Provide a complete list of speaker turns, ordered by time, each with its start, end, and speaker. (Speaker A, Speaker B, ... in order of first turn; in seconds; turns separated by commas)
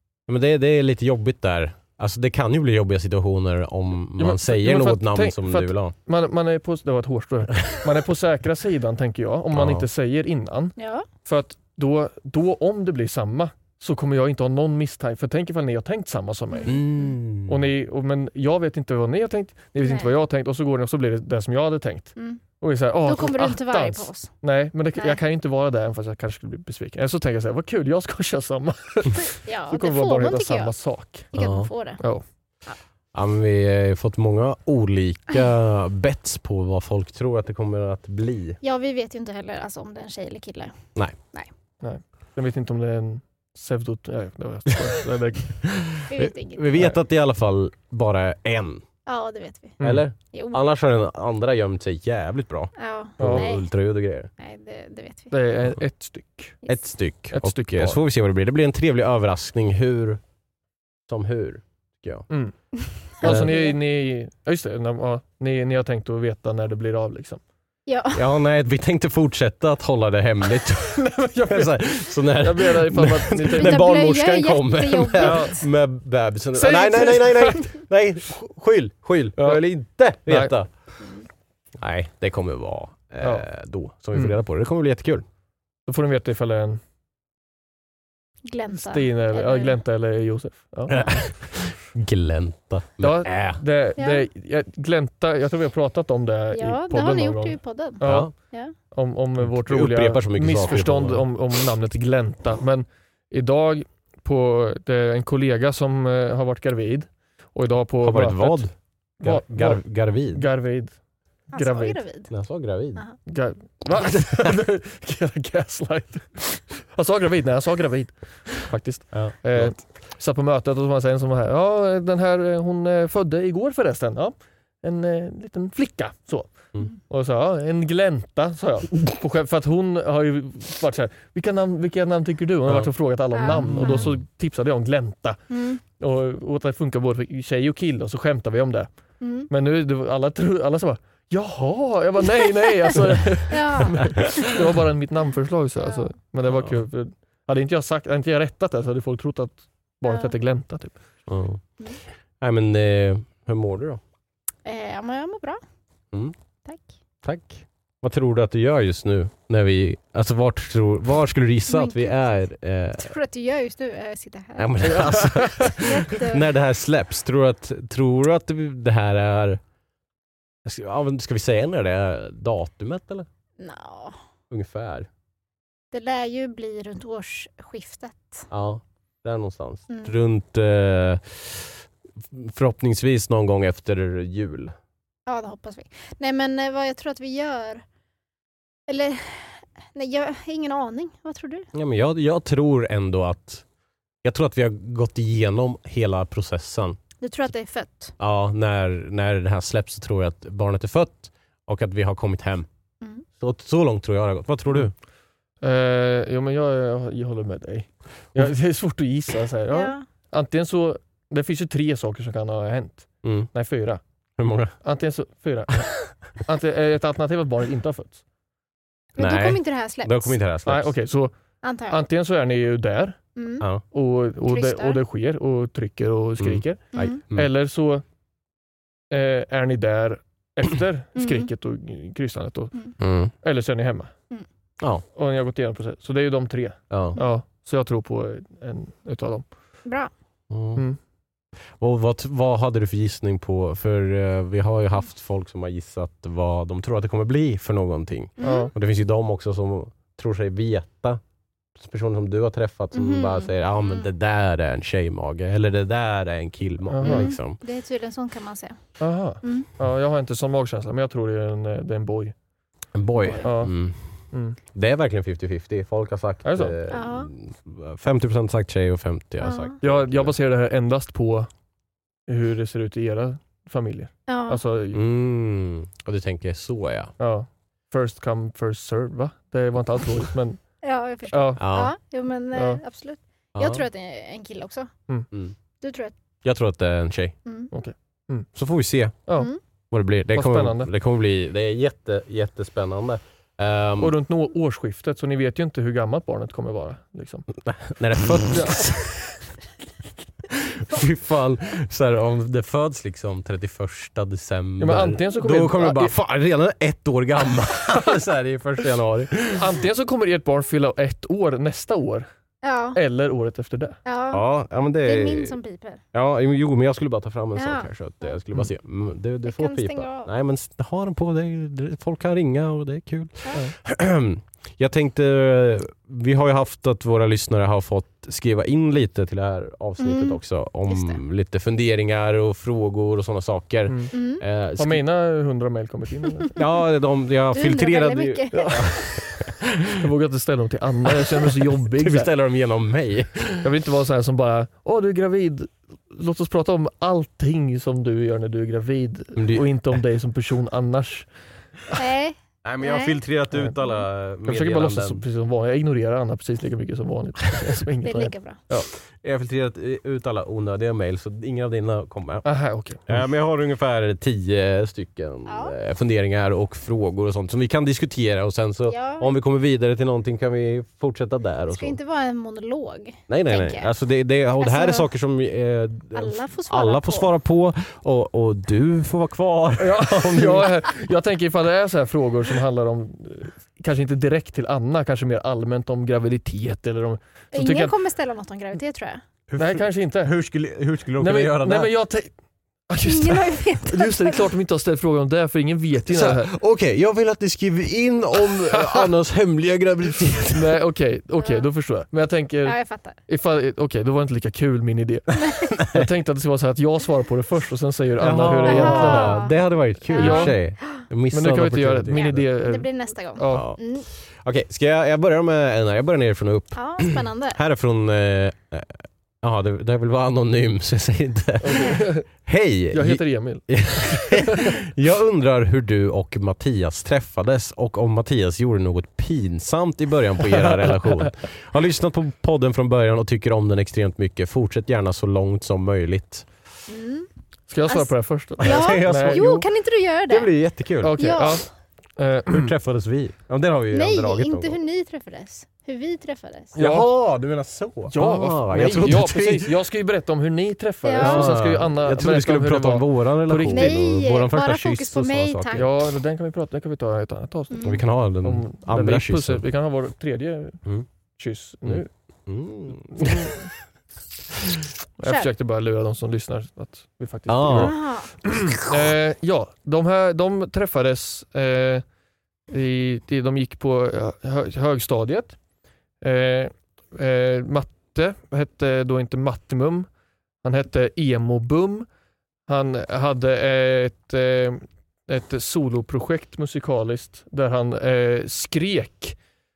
Speaker A: 0.3-5.9, Speaker B: 4.2-16.8, Speaker A: 9.5-9.8, Speaker C: 10.8-11.1, Speaker A: 16.6-17.6, Speaker B: 17.5-31.3, Speaker C: 19.8-20.1, Speaker C: 22.1-22.4, Speaker C: 23.0-24.3, Speaker C: 29.3-30.7, Speaker C: 31.3-32.0, Speaker A: 31.3-31.7, Speaker A: 33.1-38.6, Speaker C: 38.6-41.5, Speaker B: 41.8-45.6, Speaker A: 45.6-48.8, Speaker C: 46.1-46.8, Speaker C: 49.0-49.8, Speaker B: 49.8-50.0, Speaker A: 49.8-54.3, Speaker C: 50.3-50.6, Speaker C: 52.8-53.7, Speaker B: 53.2-53.5, Speaker C: 54.4-55.4, Speaker B: 55.3-56.6, Speaker A: 56.7-60.2, Speaker B: 57.3-58.0, Speaker A: 61.1-62.3, Speaker B: 62.3-62.5, Speaker C: 63.2-63.8, Speaker B: 63.2-67.4, Speaker A: 63.2-63.5, Speaker C: 67.9-68.2, Speaker A: 68.1-80.7, Speaker B: 71.0-73.8, Speaker C: 73.5-75.6, Speaker B: 75.2-75.5, Speaker B: 76.5-77.7, Speaker B: 80.3-80.5, Speaker A: 81.8-85.2, Speaker B: 83.2-83.5, Speaker B: 85.9-86.8, Speaker C: 88.4-89.8, Speaker B: 88.7-91.5, Speaker A: 90.9-93.6, Speaker B: 93.0-98.3, Speaker C: 94.0-94.2, Speaker C: 96.5-98.7, Speaker A: 98.0-98.3, Speaker B: 98.9-108.7, Speaker A: 99.4-101.3, Speaker A: 108.0-110.4, Speaker B: 109.2-111.0, Speaker B: 111.5-112.0, Speaker C: 111.5-112.3, Speaker A: 112.3-113.0, Speaker B: 113.3-138.9, Speaker A: 119.1-119.7, Speaker C: 133.3-134.1, Speaker A: 133.4-134.2, Speaker C: 135.5-135.8, Speaker C: 139.2-139.5, Speaker B: 139.5-151.0, Speaker C: 143.5-144.5, Speaker C: 150.1-150.3, Speaker A: 151.3-151.6, Speaker A: 152.4-154.0, Speaker C: 154.6-155.6, Speaker A: 157.2-163.1, Speaker C: 161.7-166.5, Speaker A: 164.6-169.6, Speaker B: 164.8-165.7, Speaker A: 170.6-173.3, Speaker C: 173.6-174.2, Speaker A: 174.5-175.1, Speaker C: 175.9-178.5, Speaker A: 178.5-184.7, Speaker C: 179.9-180.1, Speaker C: 185.3-187.8, Speaker C: 188.9-191.7, Speaker A: 191.7-193.6, Speaker A: 194.2-197.0, Speaker C: 197.2-198.2, Speaker A: 198.2-202.7, Speaker A: 203.4-204.9, Speaker B: 205.6-214.0, Speaker C: 209.7-210.0, Speaker A: 213.2-213.5, Speaker A: 214.4-214.7, Speaker B: 214.8-218.2, Speaker C: 219.2-220.4, Speaker A: 219.2-220.9, Speaker B: 220.7-221.3, Speaker C: 221.6-222.0, Speaker B: 221.9-223.2, Speaker C: 223.3-223.7, Speaker B: 223.9-228.0, Speaker C: 224.4-225.0, Speaker A: 226.4-227.5, Speaker C: 226.9-227.2, Speaker B: 229.1-232.8, Speaker C: 231.2-231.5, Speaker A: 233.0-233.3, Speaker B: 233.4-234.1, Speaker B: 235.1-239.4, Speaker A: 236.9-237.2, Speaker C: 239.8-240.1, Speaker A: 240.5-240.8, Speaker A: 241.8-251.2, Speaker C: 248.4-248.7, Speaker B: 248.4-248.7, Speaker A: 251.8-257.6, Speaker C: 252.9-254.1, Speaker B: 256.9-257.3, Speaker C: 257.0-258.8, Speaker B: 259.0-262.3, Speaker C: 259.4-259.7, Speaker A: 262.9-270.3, Speaker B: 263.4-263.7, Speaker B: 264.3-264.6, Speaker B: 266.4-266.7, Speaker C: 266.9-267.3, Speaker C: 269.4-269.8, Speaker B: 269.8-271.5, Speaker B: 272.3-275.0, Speaker C: 274.3-274.6, Speaker A: 274.9-277.1, Speaker B: 277.2-280.6, Speaker C: 280.8-284.9, Speaker B: 281.3-281.6, Speaker A: 281.6-281.9, Speaker B: 282.5-282.8, Speaker A: 283.6-283.8, Speaker C: 285.8-286.1, Speaker A: 286.4-287.3, Speaker C: 287.4-287.7, Speaker B: 287.7-288.5, Speaker A: 288.5-289.2, Speaker A: 289.9-294.1, Speaker B: 290.3-290.9, Speaker B: 294.0-297.4, Speaker A: 297.6-299.2, Speaker B: 298.4-299.0, Speaker A: 300.5-309.6, Speaker B: 304.8-306.1, Speaker B: 309.5-312.3, Speaker C: 312.6-313.0, Speaker B: 312.9-314.0, Speaker C: 314.1-314.4, Speaker A: 314.3-315.6, Speaker C: 315.0-316.0, Speaker A: 316.1-335.0, Speaker C: 317.6-318.4, Speaker C: 319.4-320.3, Speaker C: 330.0-331.2, Speaker B: 333.9-334.1, Speaker C: 334.1-334.4, Speaker B: 334.8-336.5, Speaker A: 336.5-339.6, Speaker C: 337.5-339.0, Speaker B: 338.5-339.1, Speaker B: 339.9-342.3, Speaker A: 341.5-343.7, Speaker B: 343.6-351.3, Speaker A: 349.4-349.7, Speaker C: 351.9-353.2, Speaker A: 352.6-355.2, Speaker B: 354.4-358.9, Speaker C: 358.0-358.6, Speaker A: 359.2-362.4, Speaker B: 362.4-363.2, Speaker A: 363.1-372.0, Speaker C: 365.5-365.7, Speaker C: 368.9-369.3, Speaker C: 371.7-373.9, Speaker A: 373.3-380.9, Speaker C: 374.6-375.1, Speaker C: 376.1-377.3, Speaker B: 379.8-387.9, Speaker C: 387.5-389.2, Speaker A: 389.5-391.9, Speaker B: 389.6-390.3, Speaker B: 391.2-392.3, Speaker B: 392.9-396.5, Speaker C: 393.0-394.5, Speaker A: 396.1-400.8, Speaker B: 398.8-399.0, Speaker B: 400.5-402.8, Speaker C: 401.4-401.6, Speaker C: 402.6-403.2, Speaker B: 403.3-409.4, Speaker A: 408.2-412.4, Speaker C: 408.6-411.0, Speaker B: 410.1-410.5, Speaker B: 411.3-413.7, Speaker C: 412.1-414.1, Speaker A: 413.5-436.5, Speaker C: 416.7-417.6, Speaker B: 421.6-422.2, Speaker C: 421.7-422.0, Speaker B: 422.9-424.7, Speaker C: 436.9-437.3, Speaker B: 437.7-439.4, Speaker C: 437.9-440.5, Speaker A: 438.6-439.7, Speaker A: 440.3-441.2, Speaker B: 441.0-442.7, Speaker C: 441.2-441.6, Speaker A: 442.5-444.8, Speaker C: 443.9-446.7, Speaker B: 446.7-447.1, Speaker A: 446.7-449.7, Speaker B: 448.1-454.0, Speaker C: 451.0-451.5, Speaker A: 451.2-455.9, Speaker C: 453.7-455.9, Speaker B: 455.7-460.8, Speaker C: 457.7-458.0, Speaker A: 457.8-459.6, Speaker B: 461.4-462.1, Speaker A: 461.8-463.6, Speaker B: 463.1-463.6, Speaker A: 464.6-464.8, Speaker B: 465.2-472.0, Speaker A: 467.5-468.0, Speaker C: 467.7-468.3, Speaker B: 472.7-475.6, Speaker B: 476.2-480.1, Speaker B: 480.6-482.1, Speaker B: 482.7-489.4